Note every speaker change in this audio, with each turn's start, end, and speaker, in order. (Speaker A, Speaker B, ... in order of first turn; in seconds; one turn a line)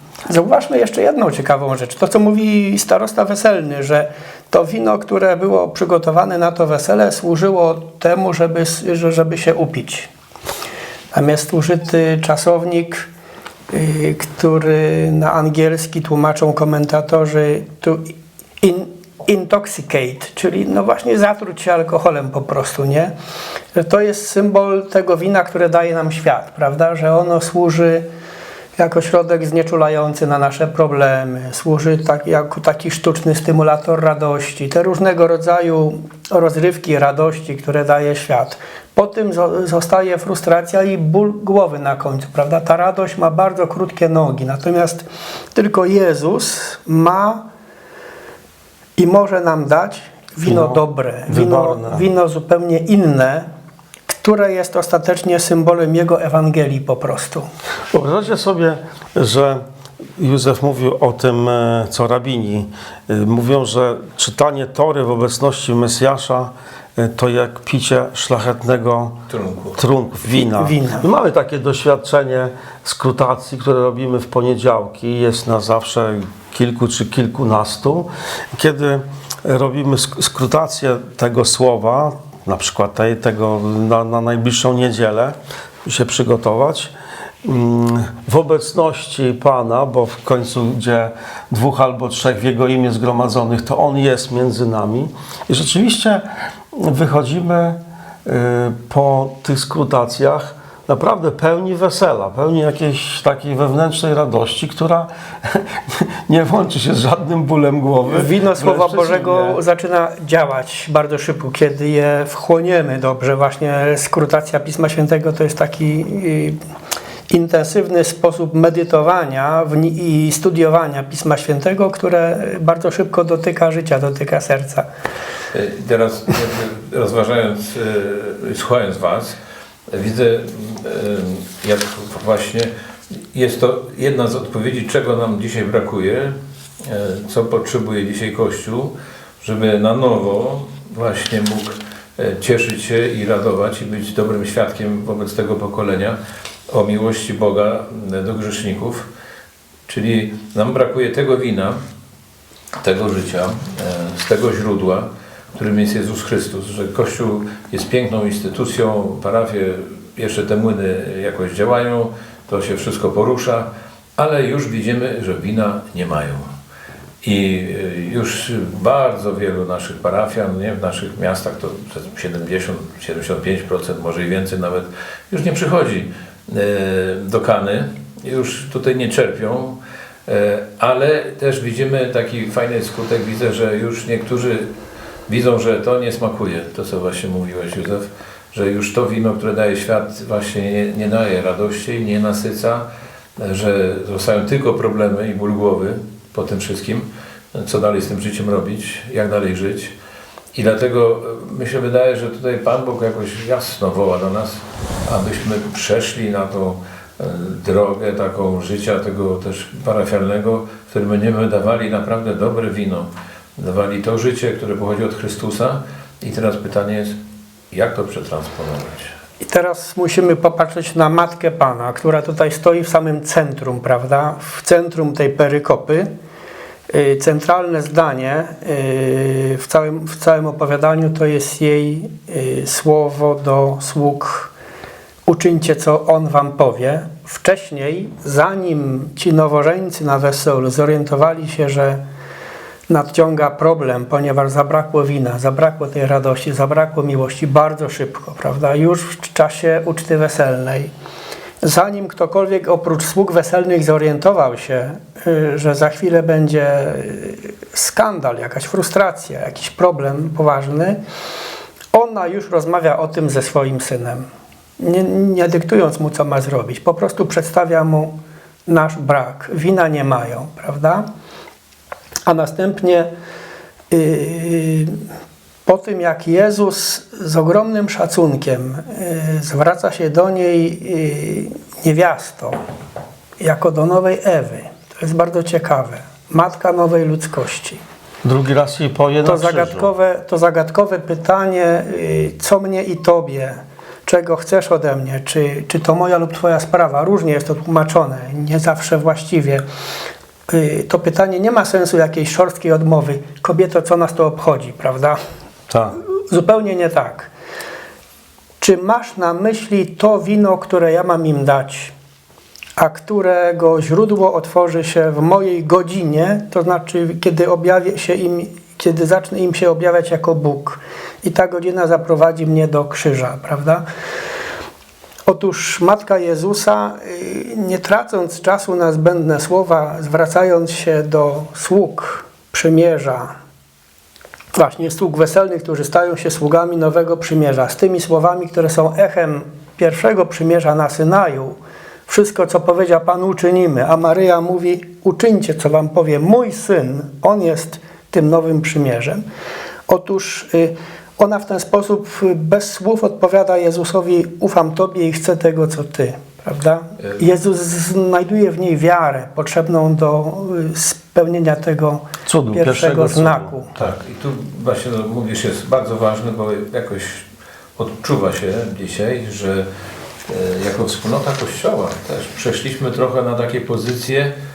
Speaker A: 0.3-10.1
Speaker A: 11.1-13.1
Speaker A: 13.7-23.1
Speaker A: 23.7-28.1
Speaker A: 28.8-47.5
Speaker A: 49.0-53.5
Speaker B: 50.4-52.0
Speaker A: 54.1-57.5
Speaker B: 57.9-59.6
Speaker B: 60.2-69.2
Speaker C: 69.3-69.8
Speaker B: 69.7-86.9
Speaker A: 70.3-71.0
Speaker B: 87.4-109.6
Speaker A: 108.0-116.6
Speaker A: 117.3-124.9
Speaker C: 125.5-129.4
Speaker C: 129.9-132.7
Speaker C: 133.3-146.2
Speaker C: 146.7-149.1
Speaker C: 149.9-151.8
Speaker C: 152.8-166.4
Speaker C: 167.2-184.7
Speaker C: 185.3-192.8
Speaker C: 193.4-199.9
Speaker C: 200.5-217.2
Speaker C: 217.7-219.1
Speaker A: 219.4-226.1
Speaker A: 226.9-234.5
Speaker A: 235.2-242.0
Speaker A: 242.9-250.9
Speaker A: 251.6-261.0
Speaker A: 261.9-264.2
Speaker A: 264.8-271.0
Speaker A: 272.2-273.1
Speaker A: 273.9-275.0
Speaker A: 275.6-282.6
Speaker A: 283.4-287.8
Speaker B: 288.2-289.9
Speaker A: 289.2-299.6
Speaker A: 300.5-305.2
Speaker A: 305.9-307.3
Speaker A: 308.6-311.9
Speaker A: 312.8-323.8
Speaker A: 325.2-333.3
Speaker A: 334.5-349.2
Speaker A: 349.9-363.7
Speaker B: 362.2-363.5
Speaker C: 363.8-367.2
Speaker C: 367.8-369.6
Speaker C: 370.3-374.3